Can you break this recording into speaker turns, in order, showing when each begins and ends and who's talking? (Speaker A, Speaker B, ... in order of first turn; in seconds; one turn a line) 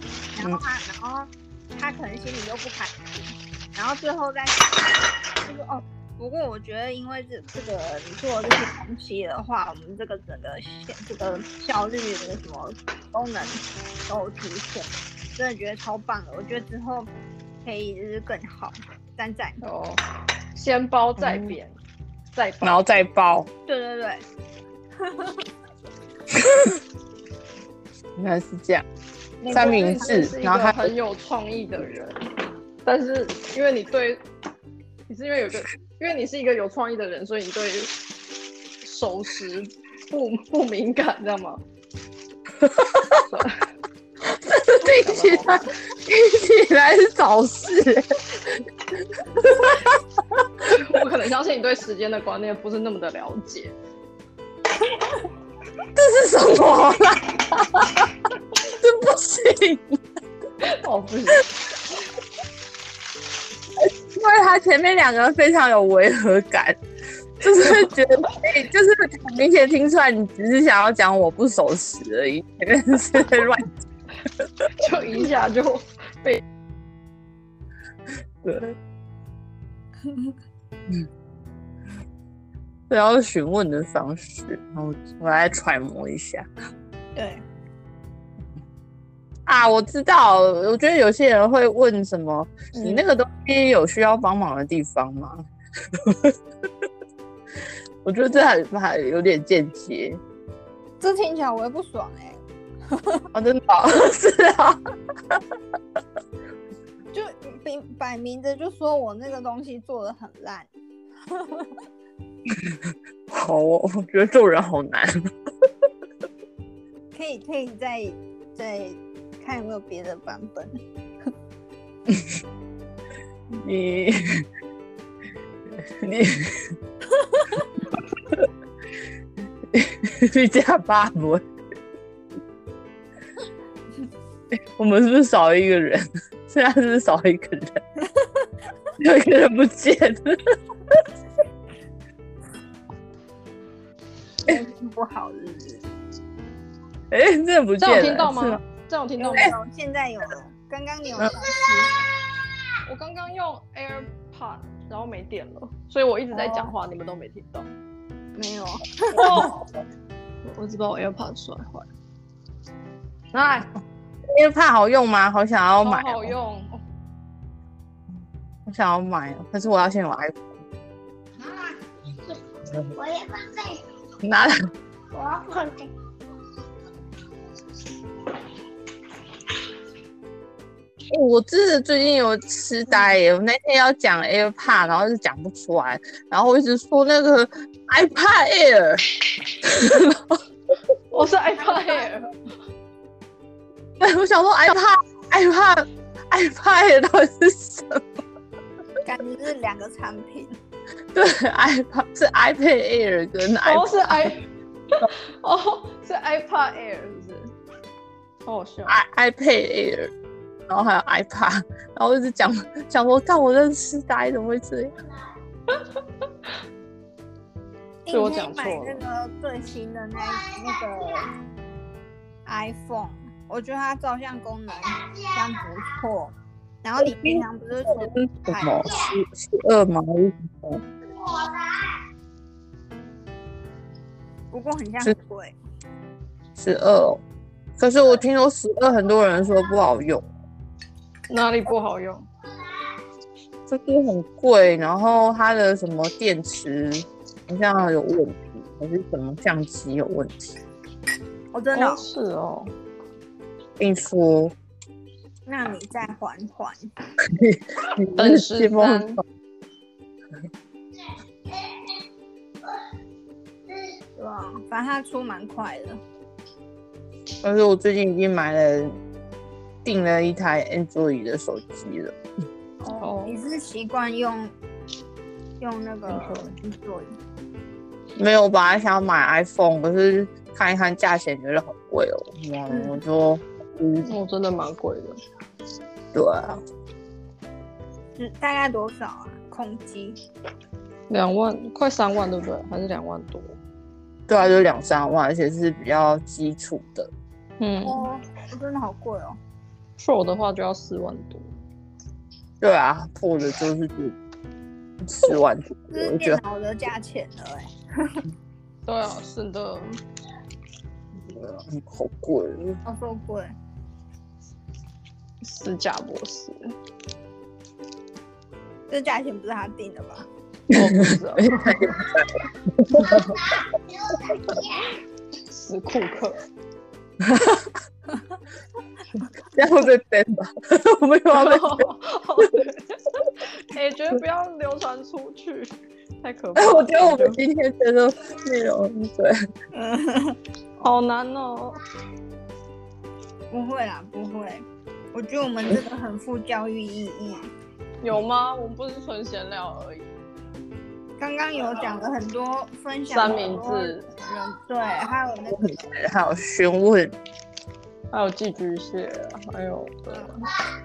Speaker A: 0.3-4.8
Speaker A: 5.4-17.1
Speaker A: 17.6-19.6
Speaker B: 19.6-20.0
Speaker B: 20.5-21.8
Speaker C: 21.2-21.5
Speaker B: 22.3-22.8
Speaker C: 22.6-23.5
Speaker A: 23.7-24.2
Speaker A: 25.0-25.4
Speaker C: 26.4-26.8
Speaker C: 28.2-28.8
Speaker A: 29.4-30.3
Speaker C: 29.5-30.9
Speaker B: 29.5-32.2
Speaker B: 32.8-34.2
Speaker B: 35.1-38.0
Speaker B: 38.8-41.6
Speaker C: 42.6-43.2
Speaker B: 43.1-43.6
Speaker C: 44.2-48.6
Speaker B: 44.8-45.7
Speaker C: 49.1-50.0
Speaker B: 50.6-53.7
Speaker C: 55.9-60.0
Speaker B: 60.6-61.5
Speaker C: 63.8-66.8
Speaker C: 67.4-73.7
Speaker B: 74.8-76.4
Speaker C: 78.4-78.7
Speaker A: 80.0-80.3
Speaker C: 82.9-86.5
Speaker A: 87.1-87.4
Speaker C: 89.5-96.3
Speaker C: 98.0-100.2
Speaker A: 101.0-103.3
Speaker C: 103.3-104.8
Speaker A: 107.1-110.7
Speaker A: 111.3-111.8
Speaker C: 112.5-112.7
Speaker C: 113.3-115.2
Speaker A: 117.1-120.7
Speaker C: 123.5-124.4
Speaker C: 126.0-126.8
Speaker C: 127.9-128.5
Speaker C: 129.7-131.4
Speaker C: 134.5-137.8
Speaker A: 138.0-138.5
Speaker C: 139.0-141.0
Speaker A: 144.4-145.8
Speaker C: 147.1-148.6
Speaker B: 147.8-149.5
Speaker A: 149.2-151.9
Speaker B: 152.8-157.7
Speaker A: 156.3-156.7
Speaker A: 158.3-159.5
Speaker B: 159.1-159.6
Speaker B: 160.4-161.9
Speaker B: 163.3-163.7
Speaker C: 164.3-166.3
Speaker B: 165.8-166.8
Speaker C: 168.7-170.4
Speaker D: 171.4-172.4
Speaker D: 172.9-173.8
Speaker C: 174.2-174.6
Speaker D: 175.1-175.9
Speaker C: 181.1-190.4
Speaker B: 191.1-192.3
Speaker C: 194.0-198.0
Speaker A: 199.0-200.6
Speaker C: 201.1-204.3
Speaker B: 203.6-207.5
Speaker B: 208.4-209.0
Speaker C: 208.9-210.1
Speaker C: 210.7-214.9
Speaker B: 215.7-216.0
Speaker A: 218.1-221.3
Speaker B: 218.1-219.0
Speaker D: 220.2-221.3
Speaker A: 222.4-229.0
Speaker D: 224.7-225.8
Speaker C: 227.0-230.8
Speaker D: 228.8-229.1
Speaker D: 231.0-232.0
Speaker A: 234.5-235.6
Speaker C: 236.6-237.2
Speaker C: 237.8-240.3
Speaker B: 241.3-242.2
Speaker C: 243.7-250.6
Speaker A: 251.5-252.0
Speaker B: 251.7-252.7
Speaker C: 253.8-254.5
Speaker A: 255.4-256.9
Speaker C: 257.2-259.2
Speaker B: 258.1-259.2
Speaker D: 261.5-262.0
Speaker D: 263.7-264.0
Speaker A: 264.2-266.0
Speaker C: 267.4-269.0
Speaker C: 269.8-272.1
Speaker A: 272.8-274.5
Speaker B: 272.9-273.4
Speaker A: 275.6-277.1
Speaker B: 276.1-276.6
Speaker C: 278.1-284.1
Speaker A: 282.7-282.9
Speaker B: 284.0-285.2
Speaker C: 286.1-286.6
Speaker A: 288.1-290.2
Speaker B: 291.1-293.6
Speaker C: 294.3-297.1
Speaker B: 297.6-298.1
Speaker A: 297.8-299.4
Speaker B: 300.0-301.5
Speaker C: 302.6-304.1
Speaker C: 305.0-306.4
Speaker A: 305.9-308.2
Speaker B: 308.9-310.0
Speaker C: 311.2-312.8
Speaker A: 312.8-313.5
Speaker B: 315.4-316.7
Speaker A: 318.9-320.3
Speaker B: 320.7-322.0
Speaker C: 320.7-323.3
Speaker D: 323.1-324.9
Speaker B: 325.5-326.4
Speaker C: 327.2-327.7
Speaker C: 329.5-331.9
Speaker B: 331.3-337.4
Speaker C: 336.5-339.4
Speaker A: 339.7-340.9
Speaker B: 340.8-341.8
Speaker A: 343.5-347.5
Speaker B: 348.0-350.1
Speaker A: 351.2-355.7
Speaker B: 353.1-354.1
Speaker C: 355.5-357.1
Speaker B: 358.1-360.5